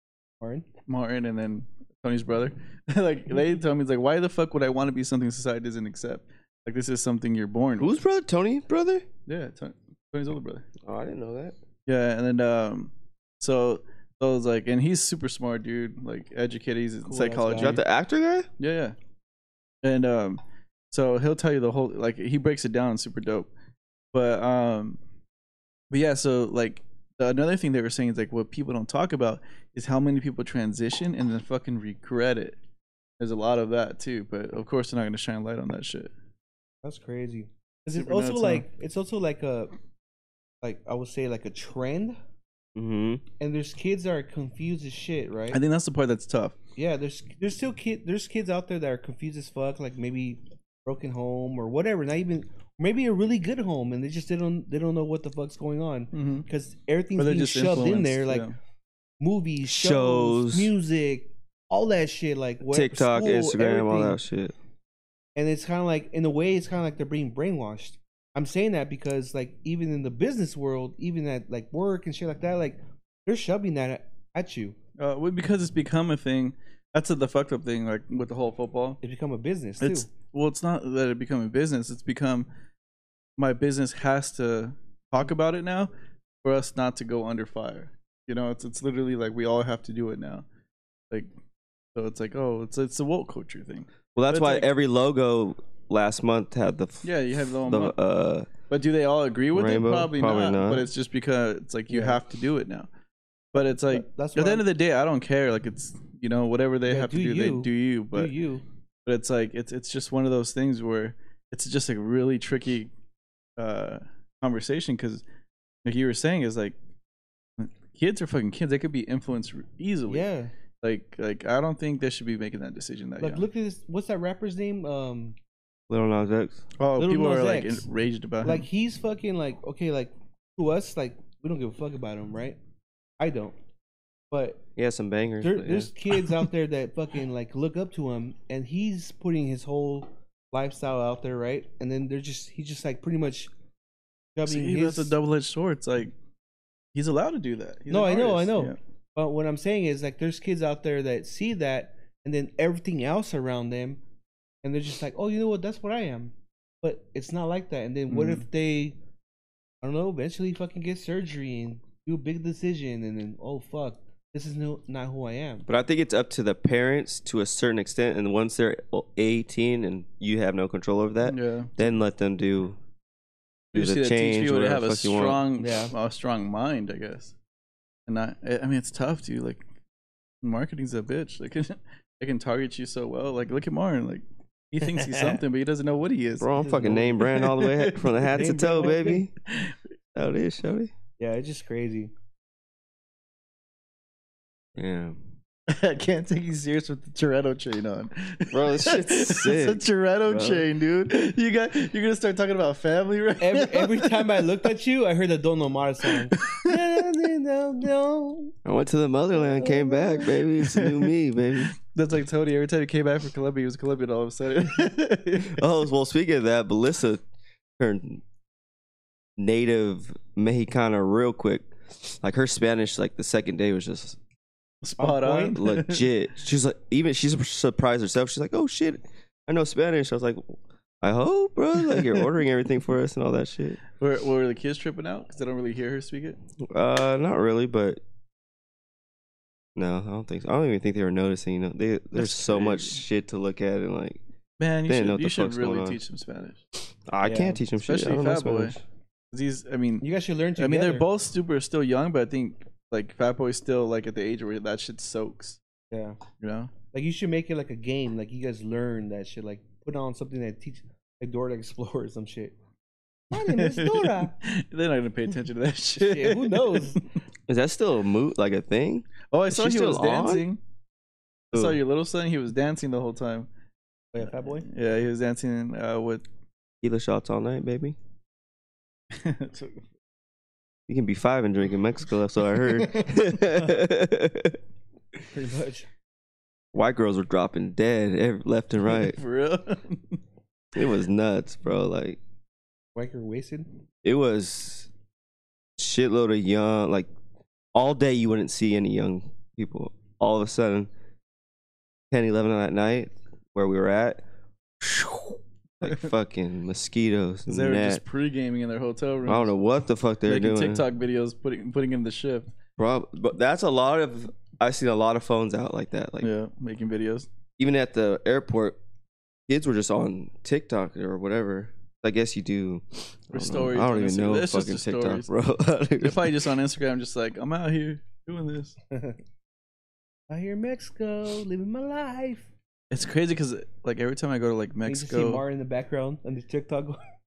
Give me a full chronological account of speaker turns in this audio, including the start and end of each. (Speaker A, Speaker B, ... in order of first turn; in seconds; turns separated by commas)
Speaker A: 0.4-0.7, Speaker B: 0.9-8.0, Speaker C: 7.8-9.1, Speaker B: 9.3-10.6, Speaker C: 10.8-11.6, Speaker B: 11.9-17.8, Speaker A: 17.1-17.8, Speaker C: 17.6-18.5, Speaker B: 18.6-19.0, Speaker B: 19.8-20.4, Speaker B: 20.9-23.5, Speaker B: 24.1-25.0, Speaker B: 25.9-32.6, Speaker B: 33.2-36.1, Speaker A: 36.8-39.7, Speaker B: 37.9-38.6, Speaker A: 40.6-42.2, Speaker C: 42.8-43.2, Speaker A: 43.4-45.6, Speaker B: 45.5-46.5, Speaker A: 46.8-58.5, Speaker B: 56.1-56.5, Speaker B: 57.2-58.5, Speaker A: 59.2-64.2, Speaker C: 59.6-60.7, Speaker C: 62.7-64.5, Speaker A: 65.4-74.8, Speaker B: 75.0-79.0, Speaker A: 79.0-80.1, Speaker B: 79.8-82.5, Speaker B: 83.4-85.9, Speaker B: 86.4-90.5, Speaker B: 92.0-94.7, Speaker C: 94.1-98.5, Speaker B: 97.0-98.0, Speaker B: 98.7-102.9, Speaker C: 99.5-100.9, Speaker A: 101.9-102.2, Speaker B: 103.5-108.3, Speaker A: 103.9-104.6, Speaker A: 106.9-108.6, Speaker B: 109.1-112.9, Speaker B: 113.6-115.2, Speaker B: 115.8-116.8, Speaker B: 117.6-120.3, Speaker A: 120.1-120.5, Speaker B: 120.8-123.5, Speaker A: 123.2-125.4, Speaker C: 125.9-126.6, Speaker B: 126.8-128.6, Speaker A: 127.0-127.8, Speaker A: 128.4-132.6, Speaker A: 133.2-133.6, Speaker A: 134.3-134.6, Speaker C: 134.8-135.9, Speaker A: 135.4-143.5, Speaker A: 144.4-145.1, Speaker B: 144.5-146.1, Speaker B: 146.9-148.8, Speaker A: 147.9-154.0, Speaker A: 154.6-159.0, Speaker B: 158.1-158.4, Speaker A: 159.8-165.7, Speaker C: 165.7-172.8, Speaker B: 171.2-171.8, Speaker B: 173.7-177.3, Speaker C: 173.7-175.4, Speaker A: 175.6-175.9, Speaker B: 178.1-179.7, Speaker B: 180.4-186.5, Speaker A: 184.8-185.4, Speaker C: 186.4-189.3, Speaker A: 186.6-187.3, Speaker B: 187.2-188.1, Speaker A: 188.2-189.2, Speaker B: 189.5-189.8, Speaker C: 190.1-190.9, Speaker A: 191.2-192.1, Speaker C: 194.8-195.2, Speaker B: 195.7-204.5, Speaker C: 198.5-200.7, Speaker A: 203.4-208.6, Speaker B: 206.1-206.7, Speaker C: 208.6-211.7, Speaker A: 209.4-210.4, Speaker B: 210.7-210.9, Speaker B: 211.9-215.6, Speaker C: 215.4-217.2, Speaker C: 217.8-218.2, Speaker C: 219.4-224.2, Speaker B: 224.8-226.1, Speaker A: 225.0-225.6, Speaker C: 225.6-233.8, Speaker B: 231.9-232.1, Speaker B: 234.0-236.4, Speaker C: 236.6-238.0, Speaker C: 239.8-244.2, Speaker B: 242.1-243.0, Speaker B: 244.6-246.6, Speaker C: 244.9-246.0, Speaker C: 247.1-248.8, Speaker A: 247.2-247.6, Speaker B: 247.8-248.8, Speaker B: 249.3-250.1, Speaker A: 250.0-251.1, Speaker B: 250.6-255.6, Speaker A: 255.9-256.2, Speaker B: 256.4-256.7, Speaker A: 256.9-262.6, Speaker A: 263.3-264.4, Speaker B: 263.4-267.0, Speaker A: 266.0-267.0, Speaker C: 267.5-270.5, Speaker B: 269.3-270.6, Speaker C: 271.5-271.8, Speaker B: 271.5-273.5, Speaker A: 274.1-274.6, Speaker B: 274.2-276.2, Speaker C: 276.8-278.0, Speaker B: 279.1-279.9, Speaker C: 280.9-284.6, Speaker A: 282.9-283.6, Speaker A: 285.3-285.9, Speaker C: 286.7-289.2, Speaker B: 288.9-290.2, Speaker C: 290.7-292.2, Speaker A: 292.9-293.7, Speaker C: 294.0-294.9, Speaker C: 295.8-297.1, Speaker C: 297.7-300.9, Speaker C: 302.1-304.2, Speaker C: 304.8-308.0, Speaker B: 305.8-306.1, Speaker B: 307.5-309.5, Speaker C: 309.2-310.8, Speaker B: 310.2-312.5, Speaker C: 312.8-316.3, Speaker B: 316.2-317.3, Speaker C: 317.6-318.8, Speaker C: 319.5-326.4, Speaker B: 323.3-325.3, Speaker B: 326.0-328.8, Speaker A: 328.9-329.2, Speaker A: 330.3-332.5, Speaker B: 332.9-335.4, Speaker A: 334.9-337.0